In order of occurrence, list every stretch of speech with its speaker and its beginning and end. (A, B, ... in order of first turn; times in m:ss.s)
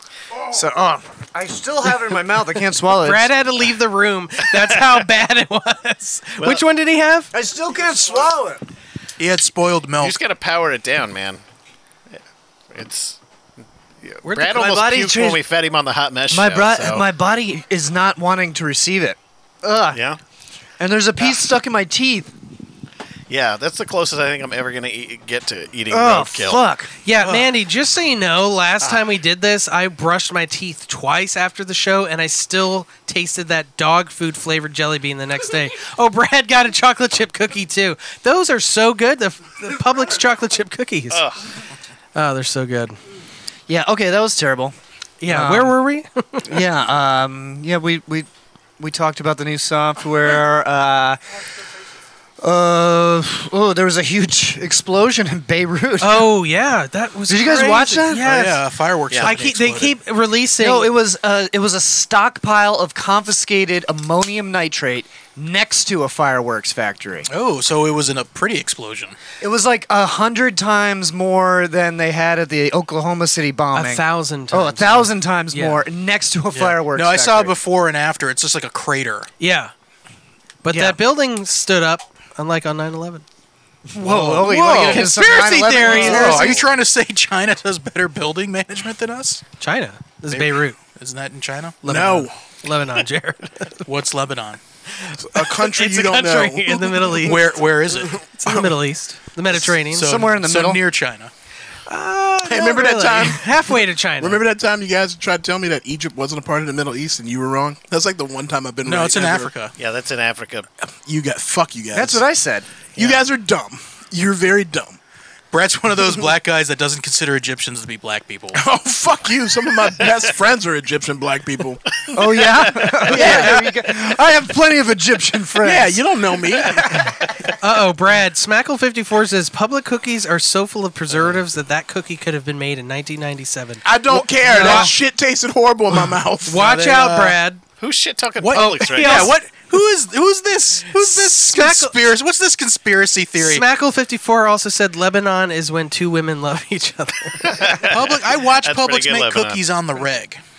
0:00.5-0:03.3 A
0:02.9-0:07.3 B
0:06.4-0:06.6 C
0:07.3-0:08.6 A
0:09.2-0:10.2 D
0:10.0-0:11.4 C
0:12.7-0:13.2 C
0:14.0-0:17.1 C
0:14.2-0:15.3 B
0:16.3-0:20.0 A
0:19.9-0:20.2 C
0:20.8-0:22.3 A
0:23.3-0:26.6 C
0:25.9-0:26.9 A
0:27.0-0:41.2 B
0:28.8-0:29.1 C
0:41.1-0:41.5 C
0:42.1-0:43.0 B
0:43.7-0:44.7 A
0:45.2-0:46.6 B
0:45.2-0:45.8 A
0:46.4-0:48.3 A
0:48.8-0:51.2 A
0:52.4-0:56.3 A
0:56.0-0:58.6 B
0:57.3-0:58.3 A
0:58.1-1:00.0 D
0:59.2-1:00.9 B
1:00.6-1:07.3 A
1:07.3-1:09.2 D
1:09.4-1:17.6 A
1:13.7-1:15.8 B
1:16.5-1:19.3 D
1:19.4-1:19.7 B
1:20.6-1:23.2 B
1:20.7-1:21.0 A
1:23.9-1:26.6 A
1:24.0-1:29.4 D
1:24.7-1:26.5 B
1:29.6-1:30.8 B
1:30.3-1:31.8 D
1:31.8-1:32.4 E
1:31.8-1:33.8 B
1:33.8-1:34.6 D
1:35.0-1:40.2 B
1:35.2-1:37.3 E
1:37.2-1:38.2 D
1:38.1-1:38.7 E
1:39.5-1:41.3 D
1:40.0-1:40.8 A
1:41.9-1:44.4 B
1:42.4-1:49.5 E
1:48.8-1:49.7 D
1:49.8-1:50.7 C
1:51.0-1:52.2 E
1:51.9-1:52.7 A
1:53.0-1:55.0 E
1:55.5-1:58.6 D
1:58.5-2:02.1 E
2:02.1-2:07.1 A
2:02.2-2:03.0 C
2:03.0-2:03.7 E
2:03.2-2:03.6 D
2:05.6-2:07.0 E
2:07.6-2:14.9 B
2:13.8-2:16.6 E
2:14.4-2:14.9 A
2:14.5-2:14.9 D
2:16.4-2:17.6 B
2:16.5-2:17.4 D
2:17.8-2:19.3 C
2:18.4-2:23.6 D
2:18.5-2:19.4 B
2:20.9-2:22.0 B
2:23.4-2:27.8 B
2:27.4-2:29.6 C
2:27.8-2:30.4 D